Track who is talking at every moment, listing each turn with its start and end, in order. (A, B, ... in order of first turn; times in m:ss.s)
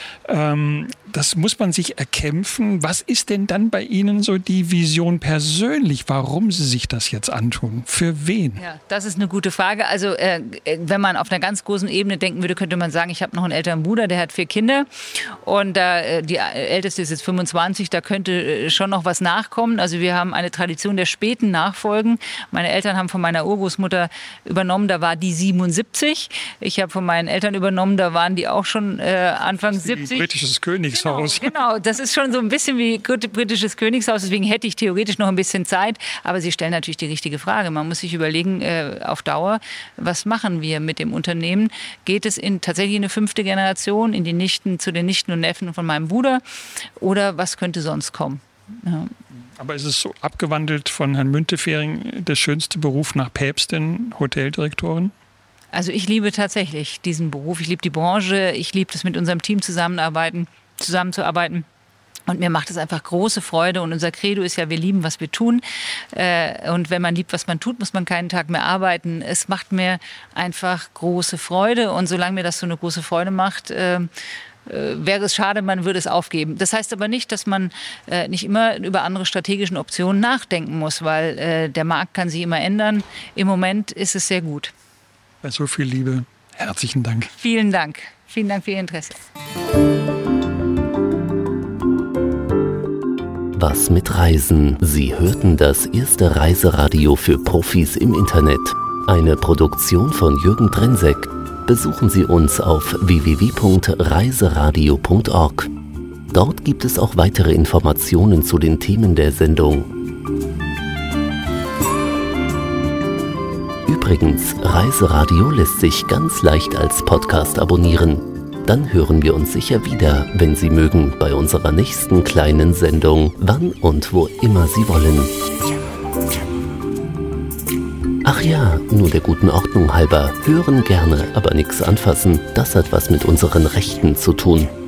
0:00.3-0:08.6 A
0:08.6-0:30.3 B
0:29.8-0:31.5 A
0:30.9-0:46.4 B
0:47.0-0:49.1 B
0:49.6-0:55.1 A
0:55.7-1:01.7 B
1:02.3-1:14.1 B
1:14.6-1:24.7 B
1:25.4-1:27.3 A
1:27.4-1:29.2 B
1:33.6-1:45.7 C
1:46.3-1:49.9 C
1:53.9-2:05.3 C
2:08.2-2:14.7 C